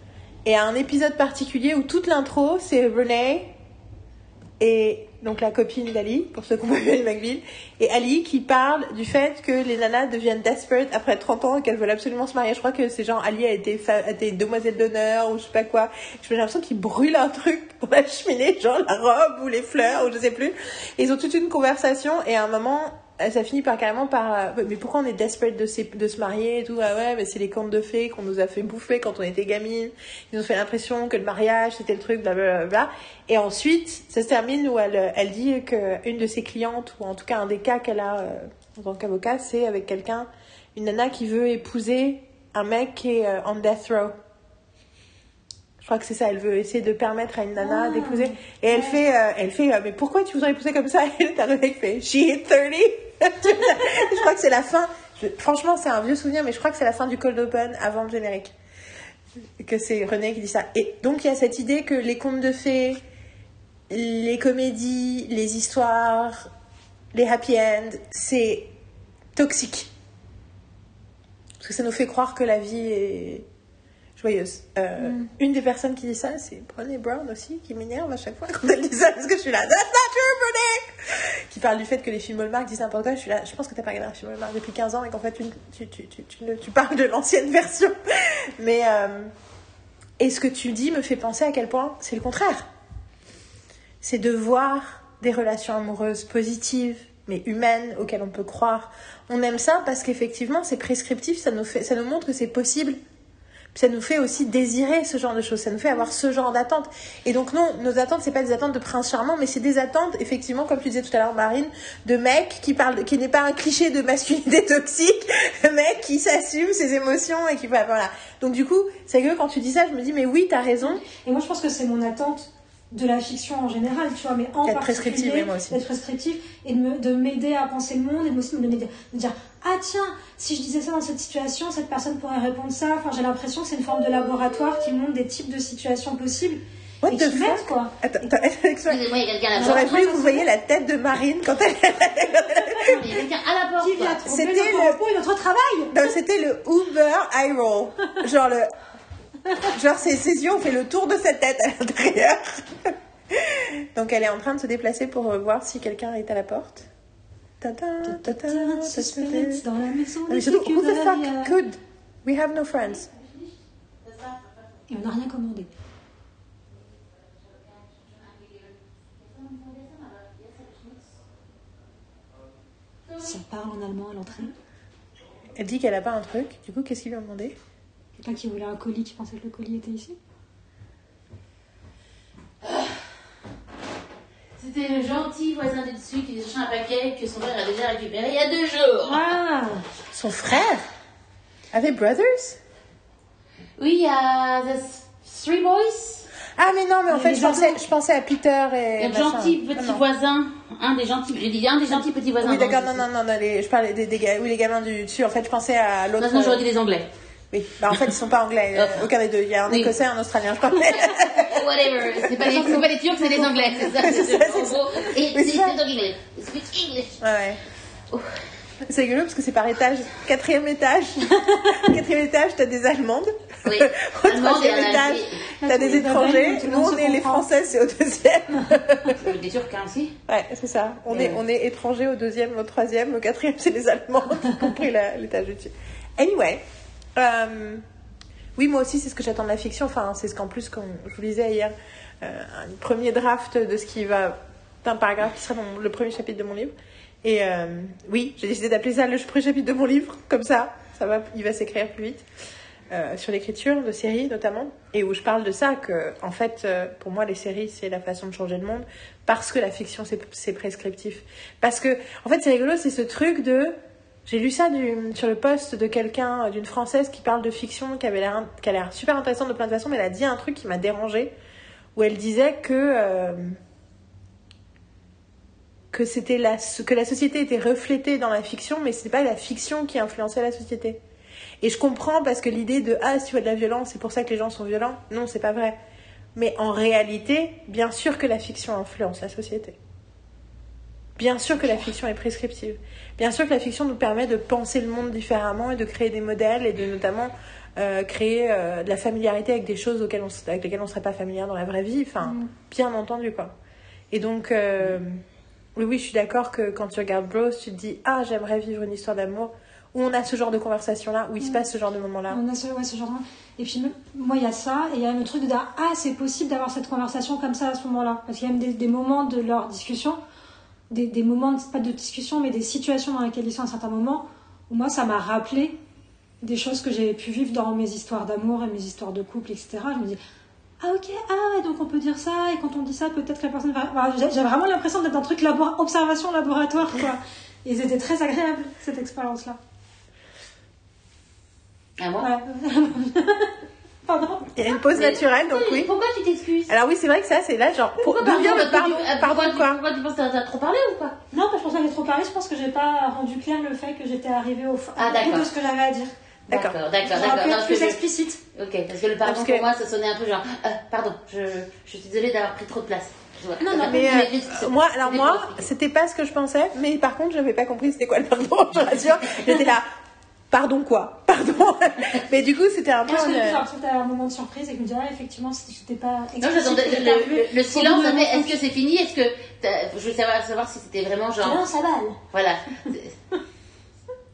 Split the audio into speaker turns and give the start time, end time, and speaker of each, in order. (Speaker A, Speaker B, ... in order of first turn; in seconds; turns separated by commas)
Speaker A: 0.4-3.5, Speaker A: 4.6-44.1, Speaker A: 45.8-58.5, Speaker B: 47.6-49.0, Speaker A: 59.6-63.0, Speaker A: 63.9-66.5, Speaker A: 67.1-68.7, Speaker A: 69.3-69.9, Speaker A: 71.6-73.5, Speaker A: 74.2-89.3, Speaker B: 75.0-75.3, Speaker A: 90.2-92.7, Speaker A: 94.0-103.0, Speaker A: 103.7-121.0, Speaker B: 120.8-137.9, Speaker A: 124.6-125.8, Speaker A: 137.0-139.0, Speaker C: 138.9-140.0, Speaker A: 139.5-143.0, Speaker B: 139.6-140.4, Speaker C: 142.8-144.2, Speaker B: 143.8-146.0, Speaker A: 144.2-145.0, Speaker A: 145.9-148.7, Speaker A: 149.7-156.9, Speaker A: 157.6-159.6, Speaker B: 158.0-161.5, Speaker A: 160.3-163.1, Speaker C: 163.1-163.5, Speaker C: 164.0-164.5, Speaker B: 164.9-165.7, Speaker C: 167.4-171.1, Speaker B: 173.2-174.5, Speaker A: 175.6-177.6, Speaker B: 178.2-180.2, Speaker C: 182.6-183.0, Speaker C: 184.6-189.3, Speaker B: 189.1-189.8, Speaker A: 190.1-190.8, Speaker A: 191.7-192.6, Speaker C: 193.8-196.3, Speaker A: 196.6-200.0, Speaker B: 197.1-197.8, Speaker C: 199.0-203.1, Speaker A: 201.9-206.6, Speaker C: 206.2-207.1, Speaker A: 207.5-211.6, Speaker C: 208.7-209.1, Speaker C: 209.7-209.9, Speaker C: 210.8-217.2, Speaker B: 212.4-213.9, Speaker A: 214.0-215.8, Speaker A: 217.2-217.6, Speaker C: 218.1-218.4, Speaker A: 218.8-229.2, Speaker B: 221.5-221.8, Speaker C: 223.6-225.5, Speaker B: 225.6-227.5, Speaker C: 229.1-230.2, Speaker A: 230.3-236.6, Speaker C: 231.1-231.4, Speaker A: 237.2-237.8, Speaker A: 238.6-252.2, Speaker A: 252.9-271.3, Speaker A: 271.9-273.6, Speaker A: 275.9-281.0, Speaker A: 281.6-285.8, Speaker A: 286.3-289.8, Speaker A: 291.2-303.5, Speaker B: 302.2-302.5, Speaker A: 304.1-305.2, Speaker A: 305.8-312.4, Speaker B: 312.3-320.2, Speaker B: 320.9-325.8, Speaker B: 326.4-330.2, Speaker B: 330.8-339.6, Speaker C: 342.0-342.3, Speaker B: 342.2-343.5, Speaker B: 344.0-344.6, Speaker A: 344.5-345.9, Speaker C: 344.9-346.7, Speaker A: 346.7-349.8, Speaker C: 348.0-351.2, Speaker B: 351.3-356.1, Speaker C: 355.0-355.5, Speaker A: 356.5-356.8, Speaker C: 356.5-358.0, Speaker B: 357.1-358.4, Speaker C: 358.5-365.6, Speaker A: 359.2-359.6, Speaker B: 363.6-364.2, Speaker A: 363.8-369.9, Speaker A: 370.5-373.6, Speaker B: 373.0-378.6, Speaker C: 376.4-381.6, Speaker B: 381.4-382.2, Speaker C: 382.3-383.2